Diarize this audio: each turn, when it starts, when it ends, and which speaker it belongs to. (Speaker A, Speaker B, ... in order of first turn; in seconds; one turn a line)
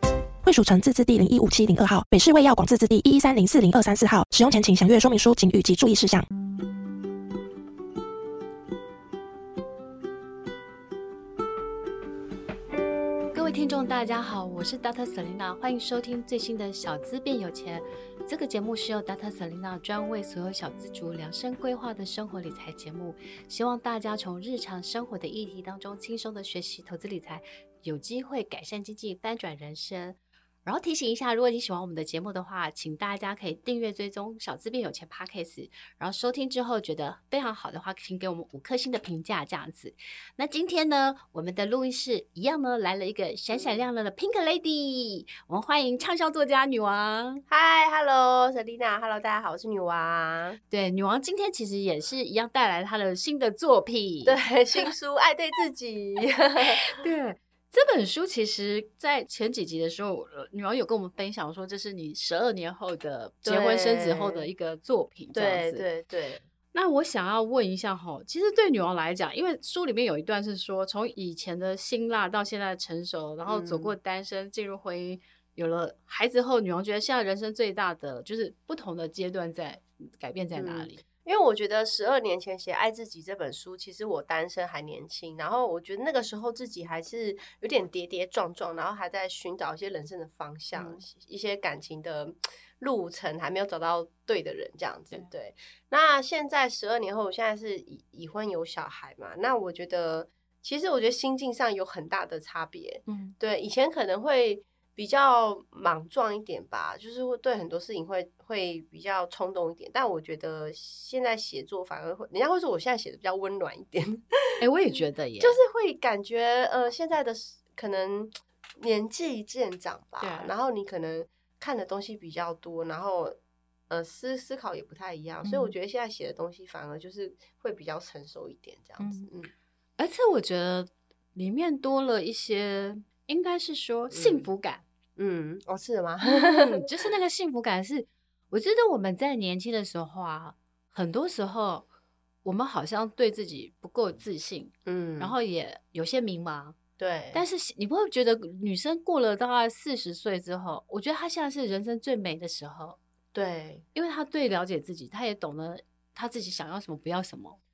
Speaker A: 0.4-6.3
Speaker B: 13.3-47.4
Speaker C: 43.5-43.8
Speaker C: 47.5-50.6
Speaker B: 50.7-54.4
Speaker C: 54.2-56.9
Speaker B: 56.6-65.8
Speaker C: 63.4-64.5
Speaker C: 65.3-66.4
Speaker B: 66.7-81.0
Speaker C: 73.5-73.9
Speaker C: 80.5-114.6
Speaker B: 90.8-91.0
Speaker B: 103.0-103.3
Speaker B: 114.6-115.6
Speaker C: 115.4-123.4
Speaker B: 120.2-120.5
Speaker C: 123.9-129.5
Speaker B: 125.4-125.7
Speaker B: 129.0-129.3
Speaker B: 130.0-134.8
Speaker C: 134.1-134.5
Speaker C: 135.2-136.8
Speaker B: 136.2-141.9
Speaker B: 142.4-146.8
Speaker C: 144.8-145.3
Speaker C: 147.0-147.4
Speaker B: 147.3-153.0
Speaker C: 153.3-153.8
Speaker B: 153.9-157.6